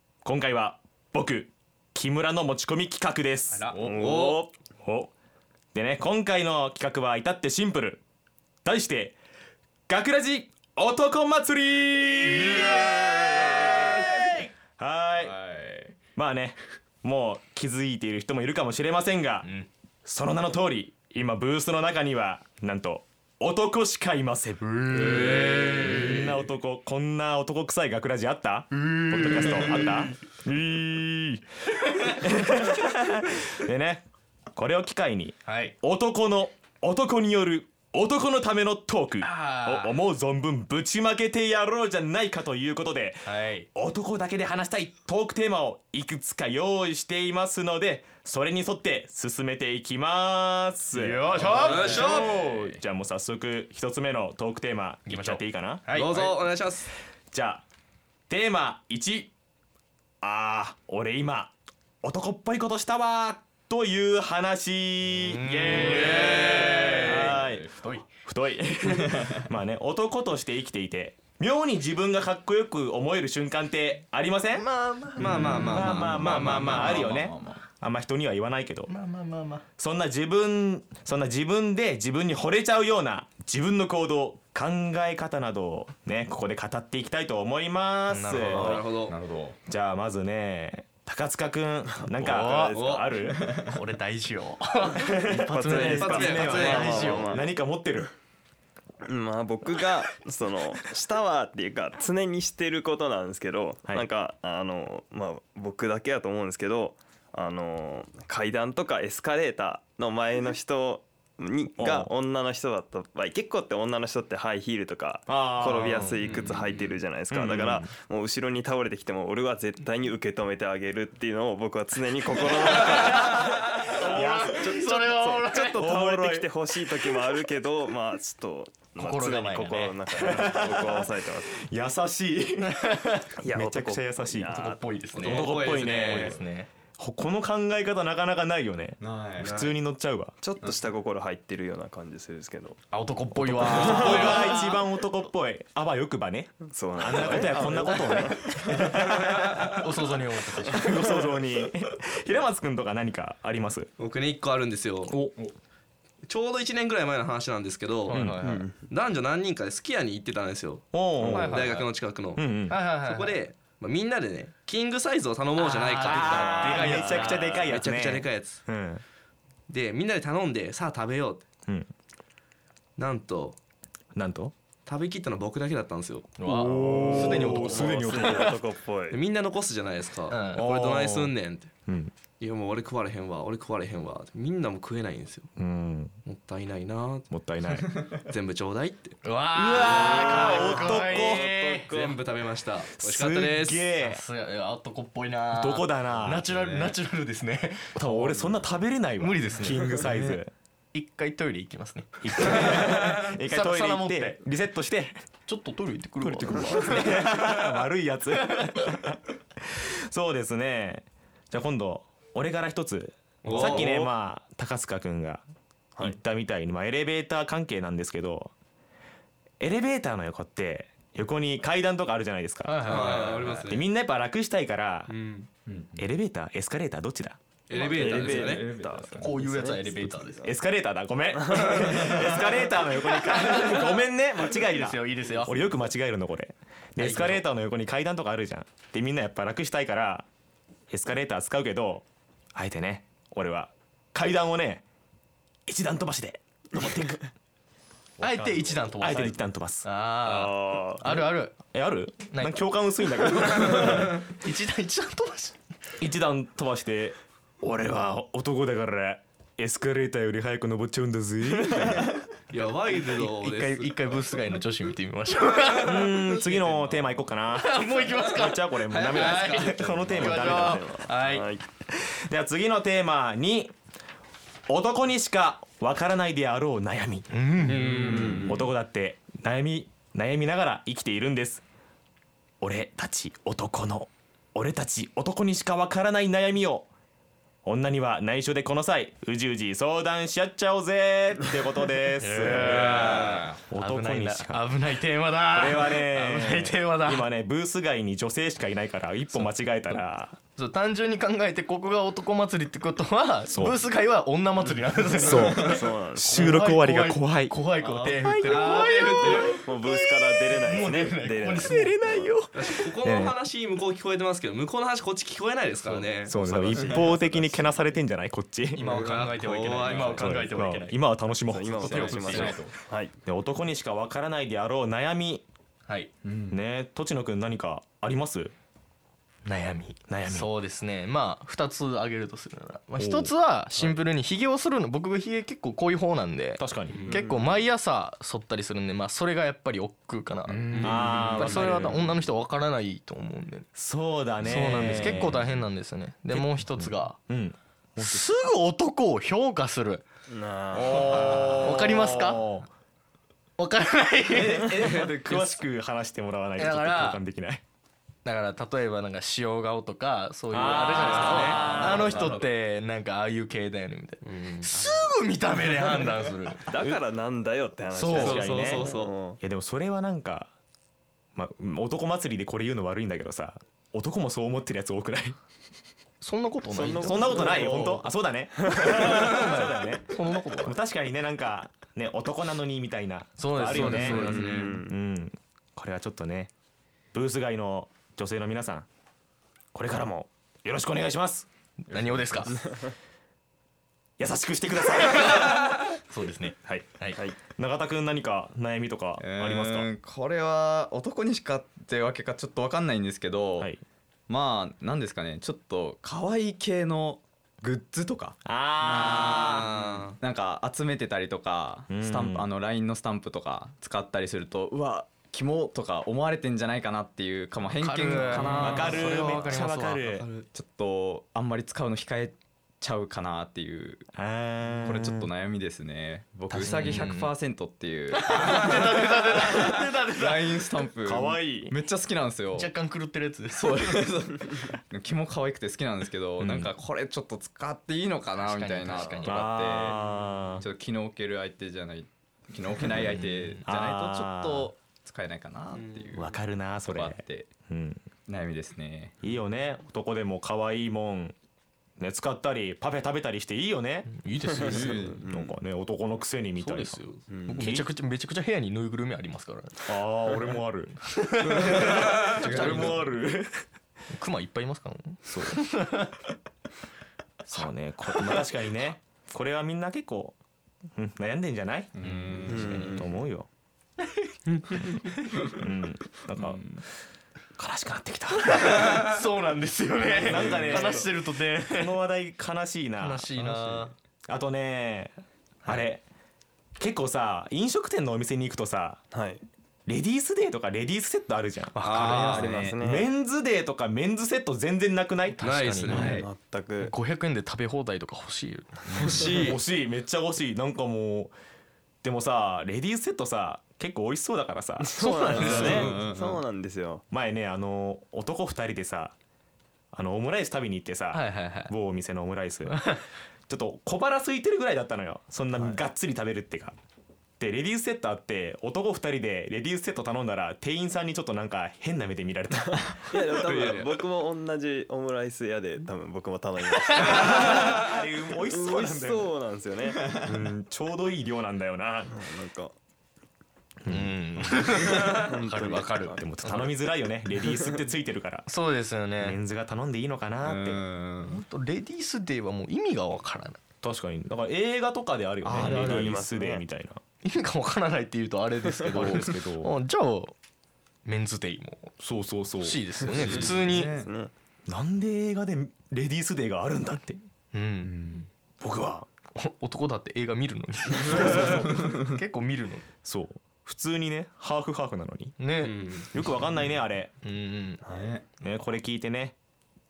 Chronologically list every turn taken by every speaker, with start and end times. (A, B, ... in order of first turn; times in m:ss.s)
0:00.2-0:03.7 A
0:03.7-0:04.5 B
0:03.9-0:04.5 C
0:04.8-0:05.1 A
0:05.7-0:08.0 A
0:08.6-0:09.2 A
0:09.9-0:15.4 A
0:12.3-0:14.3 D
0:15.2-0:16.0 E
0:16.1-0:19.5 A
0:20.0-0:31.4 A
0:24.6-0:26.4 D
0:28.7-0:30.1 D
0:32.0-0:56.0 A
0:35.4-0:35.7 D
0:39.2-0:39.9 D
0:43.2-0:43.7 D
0:50.9-0:52.4 D
0:51.6-0:52.4 C
0:55.1-0:56.3 D
0:55.9-0:56.9 C
0:57.3-0:57.6 A
0:58.3-0:59.3 A
1:00.2-1:07.7 A
1:05.2-1:08.0 D
1:06.0-1:06.8 C
1:06.3-1:07.8 E
1:08.2-1:14.7 A
1:08.8-1:09.5 E
1:14.5-1:17.1 D
1:15.2-1:17.0 C
1:15.2-1:18.9 A
1:15.8-1:17.6 E
1:18.9-1:19.6 D
1:19.8-1:28.9 A
1:28.1-1:28.8 D
1:28.5-1:29.6 E
1:28.5-1:29.2 C
1:29.7-1:33.4 A
1:32.2-1:33.0 B
1:32.2-1:32.8 D
1:32.7-1:33.1 C
1:33.3-1:33.7 E
1:33.6-1:37.4 D
1:34.9-1:38.1 A
1:35.5-1:37.5 B
1:35.8-1:37.2 C
1:39.0-2:11.5 B
1:51.8-1:52.1 A
1:55.3-1:56.3 A
1:56.2-1:56.6 C
1:57.3-1:57.9 A
2:02.7-2:05.9 D
2:04.0-2:04.7 A
2:05.8-2:06.5 A
2:09.0-2:10.6 D
2:10.2-2:13.0 A
2:12.7-2:13.2 D
2:13.4-2:14.8 B
2:13.5-2:14.6 A
2:14.5-2:16.7 D
2:15.2-2:16.4 C
2:15.2-2:16.4 A
2:17.0-2:20.4 A
2:19.0-2:19.6 E
2:19.4-2:19.7 C
2:20.4-2:22.8 B
2:22.9-2:24.8 D
2:23.4-2:29.8 A
2:23.6-2:24.5 B
2:26.6-2:28.6 B
2:27.1-2:28.6 D
2:29.7-2:30.8 D
2:30.7-2:33.9 A
2:34.0-2:35.1 C
2:36.3-2:38.2 C
2:38.1-2:38.7 D
2:38.1-2:38.4 A
2:38.4-2:38.8 B
2:38.9-2:42.4 C
2:40.9-2:42.8 A
2:41.2-2:41.8 D
2:42.7-2:43.4 D
2:42.9-2:48.6 C
2:45.6-2:47.7 D
2:46.0-2:49.0 A
2:49.7-2:51.4 C
2:53.0-2:53.6 C
2:54.1-2:54.5 A
2:54.8-2:56.3 C
2:56.4-2:58.6 D
2:56.4-2:58.6 A
2:56.7-2:59.2 B
2:59.1-3:01.7 C
3:00.3-3:00.6 D
3:00.5-3:01.3 A
3:01.9-3:02.1 A
3:02.4-3:05.5 C
3:05.6-3:06.1 A
3:06.2-3:07.3 C
3:07.3-3:08.0 A
3:08.2-3:09.2 C
3:09.2-3:11.9 D
3:09.5-3:11.4 A
3:09.7-3:12.2 B
3:11.9-3:13.9 C
3:13.0-3:14.2 A
3:14.0-3:18.0 D
3:15.5-3:16.4 A
3:16.4-3:17.0 E
3:17.9-3:20.5 A
3:19.2-3:20.1 D
3:20.0-3:20.4 E
3:20.9-3:24.4 D
3:22.2-3:25.2 A
3:25.5-3:27.4 D
3:26.2-3:35.4 A
3:33.4-3:33.8 C
3:33.5-3:34.1 B
3:36.0-3:38.5 A
3:39.6-3:45.1 A
3:42.7-3:43.3 D
3:42.8-3:43.9 C
3:43.0-3:43.6 E
3:45.1-3:45.5 C
3:45.6-3:46.1 E
3:46.0-3:47.4 A
3:47.7-3:48.6 C
3:47.7-3:50.5 B
3:47.8-3:49.3 E
3:48.1-3:48.5 D
3:49.2-3:50.5 D
3:50.4-4:00.2 A
3:51.4-3:51.8 B
3:51.8-3:52.4 E
3:53.4-3:53.9 D
3:54.5-3:55.8 D
3:57.0-3:57.4 D
4:00.9-4:04.8 A
4:05.7-4:07.2 A
4:08.2-4:11.6 D
4:08.2-4:09.8 A
4:10.2-4:11.3 B
4:11.7-4:14.3 A
4:12.3-4:12.6 D
4:13.6-4:15.6 D
4:16.0-4:22.2 A
4:21.7-4:22.1 B
4:22.5-4:24.0 C
4:22.9-4:26.4 D
4:25.8-4:30.9 A
4:27.5-4:31.5 D
4:28.9-4:30.0 C
4:30.0-4:31.6 B
4:31.9-4:33.7 A
4:34.7-4:41.6 A
4:37.3-4:38.5 D
4:37.7-4:38.6 B
4:42.6-4:46.9 A
4:47.6-4:54.7 A
4:52.2-4:57.3 D
4:52.8-4:53.4 C
4:52.8-4:53.5 E
4:55.5-5:00.4 A
5:00.5-5:11.9 D
5:03.5-5:03.8 A
5:05.2-5:09.4 A
5:05.4-5:06.6 B
5:08.3-5:09.6 C
5:08.7-5:12.2 B
5:11.6-5:13.3 A
5:12.5-5:16.4 C
5:16.3-5:18.8 A
5:16.4-5:17.4 B
5:18.7-5:21.0 D
5:18.8-5:19.1 E
5:18.8-5:20.4 C
5:19.8-5:22.6 A
5:21.5-5:23.1 B
5:21.8-5:22.7 D
5:21.9-5:22.7 E
5:23.2-5:25.4 A
5:26.2-5:26.6 E
5:26.5-5:28.5 A
5:29.4-5:43.7 D
5:30.1-5:30.5 A
5:33.0-5:33.3 A
5:36.6-5:37.1 A
5:37.0-5:37.6 B
5:40.5-5:41.8 E
5:40.7-5:41.1 C
5:40.8-5:42.1 A
5:43.7-5:45.7 A
5:44.4-5:47.2 D
5:46.3-5:48.3 A
5:48.0-5:50.0 D
5:50.3-5:51.6 B
5:50.7-5:52.7 A
5:50.8-5:52.4 D
5:53.6-5:55.5 D
5:54.4-5:57.6 A
5:56.6-5:57.2 D
5:58.2-6:06.7 D
6:00.5-6:02.4 A
6:00.6-6:01.8 C
6:01.4-6:02.4 E
6:04.2-6:04.7 C
6:06.7-6:09.4 B
6:06.7-6:07.0 A
6:08.0-6:08.4 D
6:08.1-6:10.5 A
6:08.1-6:09.1 C
6:11.3-6:15.4 A
6:16.2-6:18.0 D
6:16.7-6:18.0 B
6:17.0-6:26.5 A
6:18.6-6:19.3 B
6:18.9-6:20.8 D
6:23.4-6:24.6 D
6:23.7-6:24.8 C
6:24.0-6:24.9 B
6:27.1-6:28.9 A
6:29.7-6:31.5 A
6:31.9-6:32.6 D
6:31.9-6:32.6 E
6:32.5-6:32.9 B
6:34.2-6:35.9 A
6:36.1-6:37.2 D
6:36.6-6:39.9 A
6:39.2-6:43.7 E
6:44.3-6:59.6 E
6:48.4-6:49.7 A
6:48.9-6:50.2 C
6:51.9-6:52.5 A
6:57.8-7:00.1 D
6:58.3-7:00.3 A
7:00.1-7:00.4 C
7:00.5-7:04.0 E
7:04.1-7:05.3 A
7:04.8-7:12.7 E
7:06.5-7:07.3 D
7:06.7-7:06.9 A
7:08.1-7:10.8 D
7:11.0-7:11.7 A
7:12.5-7:14.1 D
7:13.5-7:20.0 E
7:16.4-7:16.7 A
7:18.4-7:19.6 D
7:19.2-7:20.6 A
7:20.6-7:27.5 E
7:22.8-7:23.6 D
7:23.6-7:24.7 A
7:25.7-7:26.1 C
7:26.1-7:28.0 A
7:28.3-7:29.2 E
7:29.2-7:31.3 A
7:32.0-7:37.9 A
7:34.1-7:35.2 D
7:34.6-7:35.5 B
7:34.7-7:35.2 E
7:36.6-7:39.9 D
7:37.3-7:37.7 B
7:39.8-7:41.0 A
7:41.0-7:42.9 D
7:41.4-7:43.1 E
7:41.6-7:43.6 A
7:44.1-7:46.2 D
7:45.2-7:45.6 A
7:47.4-7:50.4 A
7:51.0-7:53.5 A
7:51.9-7:52.9 E
7:52.0-7:52.8 D
7:52.4-7:53.1 B
7:54.8-7:56.6 A
7:57.6-7:59.1 A
7:58.5-8:01.9 D
8:00.2-8:03.3 A
8:03.0-8:03.9 D
8:03.4-8:03.9 E
8:04.3-8:06.0 A
8:06.8-8:09.1 A
8:09.1-8:09.4 B
8:09.8-8:11.9 A
8:11.7-8:12.6 D
8:11.8-8:12.8 E
8:12.0-8:13.1 B
8:12.8-8:16.0 A
8:15.4-8:16.3 D
8:15.4-8:16.1 C
8:15.9-8:16.3 E
8:16.0-8:16.9 B
8:16.8-8:19.6 D
8:19.0-8:19.4 B
8:19.2-8:21.3 A
8:22.0-8:26.0 A
8:24.8-8:27.0 B
8:25.0-8:26.0 D
8:25.4-8:26.4 E
8:27.1-8:29.1 A
8:29.9-8:36.7 A
8:31.1-8:31.7 D
8:32.6-8:33.0 D
8:37.4-8:43.8 A
8:43.0-8:50.5 B
8:43.5-8:43.8 C
8:46.8-8:47.2 D
8:47.0-8:49.3 A
8:50.2-8:52.3 A
8:52.1-8:52.7 B
8:53.8-8:55.2 A
8:53.9-8:56.7 D
8:54.8-8:56.2 B
8:56.1-8:58.5 A
8:57.3-8:57.8 B
8:58.5-8:59.4 D
8:59.2-9:00.8 A
9:00.4-9:01.4 E
9:01.2-9:03.6 D
9:03.8-9:07.0 A
9:05.4-9:06.2 E
9:05.5-9:06.6 B
9:07.2-9:10.3 D
9:08.9-9:09.7 A
9:11.0-9:12.0 D
9:12.0-9:13.5 A
9:12.6-9:13.9 D
9:13.1-9:14.1 E
9:13.3-9:14.3 B
9:14.7-9:17.2 A
9:17.5-9:18.2 D
9:17.8-9:18.2 E
9:18.6-9:19.1 A
9:19.3-9:22.8 D
9:21.1-9:21.7 A
9:23.0-9:25.4 A
9:25.4-9:25.8 D
9:25.6-9:26.1 C
9:26.1-9:27.1 A
9:27.2-9:27.8 D
9:27.8-9:28.1 B
9:27.9-9:28.2 E
9:28.4-9:29.3 A